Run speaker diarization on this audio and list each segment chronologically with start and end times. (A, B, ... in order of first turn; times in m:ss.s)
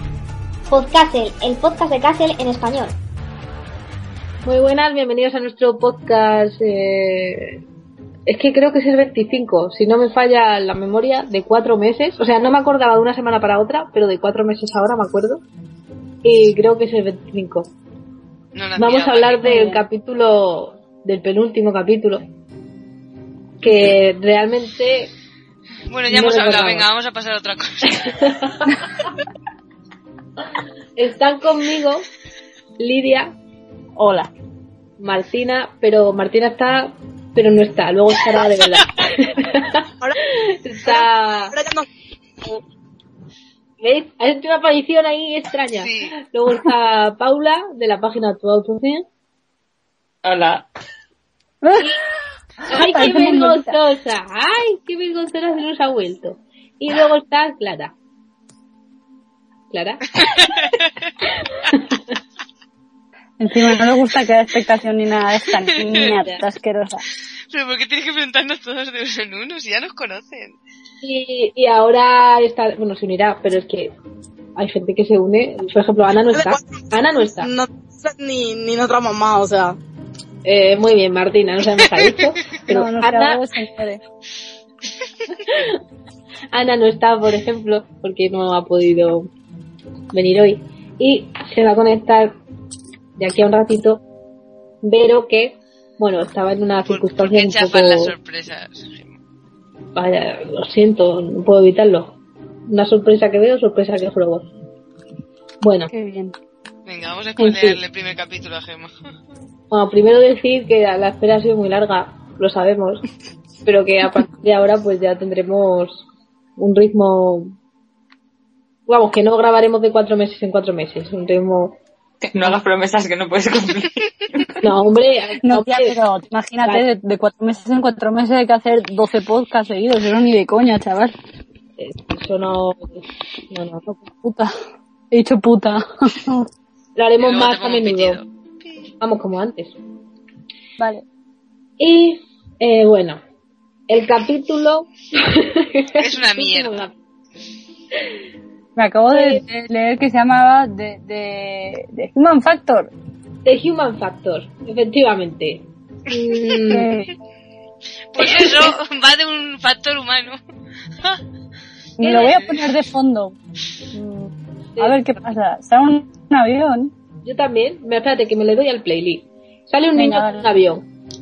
0:00.7-0:03.0 A
0:04.4-0:07.6 B
0:08.3-0:15.4 B
0:16.2-0:17.7 B
0:18.5-0:19.5 C
0:18.8-0:22.3 B
0:19.4-0:19.8 D
0:23.6-0:25.1 B
0:25.9-0:28.3 C
0:26.1-0:26.8 B
0:28.0-0:28.8 B
0:31.0-0:32.1 B
0:32.8-0:33.3 B
0:34.0-0:34.3 D
0:35.0-0:39.9 B
0:40.6-0:41.5 B
0:40.8-0:41.8 E
0:43.8-0:49.0 B
0:45.8-0:46.1 C
0:50.2-0:50.7 F
0:51.6-0:51.9 D
0:52.6-0:53.8 D
0:52.7-0:57.9 B
0:59.7-1:00.3 B
1:00.2-1:00.8 C
1:01.6-1:02.1 B
1:03.4-1:07.0 D
1:06.0-1:06.4 B
1:07.5-1:10.6 C
1:11.0-1:13.9 B
1:14.6-1:17.5 B
1:16.3-1:16.8 E
1:17.4-1:19.8 E
1:20.4-1:23.4 B
1:22.7-1:24.0 D
1:25.3-1:25.8 B
1:26.5-1:29.3 B
1:30.1-1:32.4 B
1:33.2-1:34.0 B
1:34.8-1:38.1 B
1:36.8-1:39.2 C
1:39.9-1:44.5 B
1:45.6-1:45.9 B
1:45.9-1:46.4 D
1:46.8-1:48.9 C
1:47.4-1:47.8 D
1:49.7-1:53.0 B
1:53.6-1:56.0 B
1:56.6-1:57.5 B
1:58.9-2:01.8 B
2:02.2-2:04.6 F
2:04.6-2:06.0 B
2:05.4-2:11.1 D
2:11.8-2:13.8 B
2:13.8-2:14.5 D
2:15.1-2:16.5 D
2:17.0-2:18.2 B
2:17.2-2:18.9 C
2:19.0-2:19.8 B
2:20.8-2:21.0 D
2:21.8-2:23.2 B
2:23.9-2:26.9 B
2:26.0-2:26.8 C
2:28.8-2:32.9 D
2:29.1-2:29.4 B
2:33.4-2:36.9 B
2:36.7-2:37.1 D
2:38.1-2:40.4 C
2:38.2-2:38.7 B
2:42.0-2:43.4 D
2:42.0-2:42.3 B
2:42.1-2:42.6 C
2:43.9-2:45.0 B
2:44.8-2:46.9 D
2:47.2-2:50.8 B
2:49.9-2:50.4 D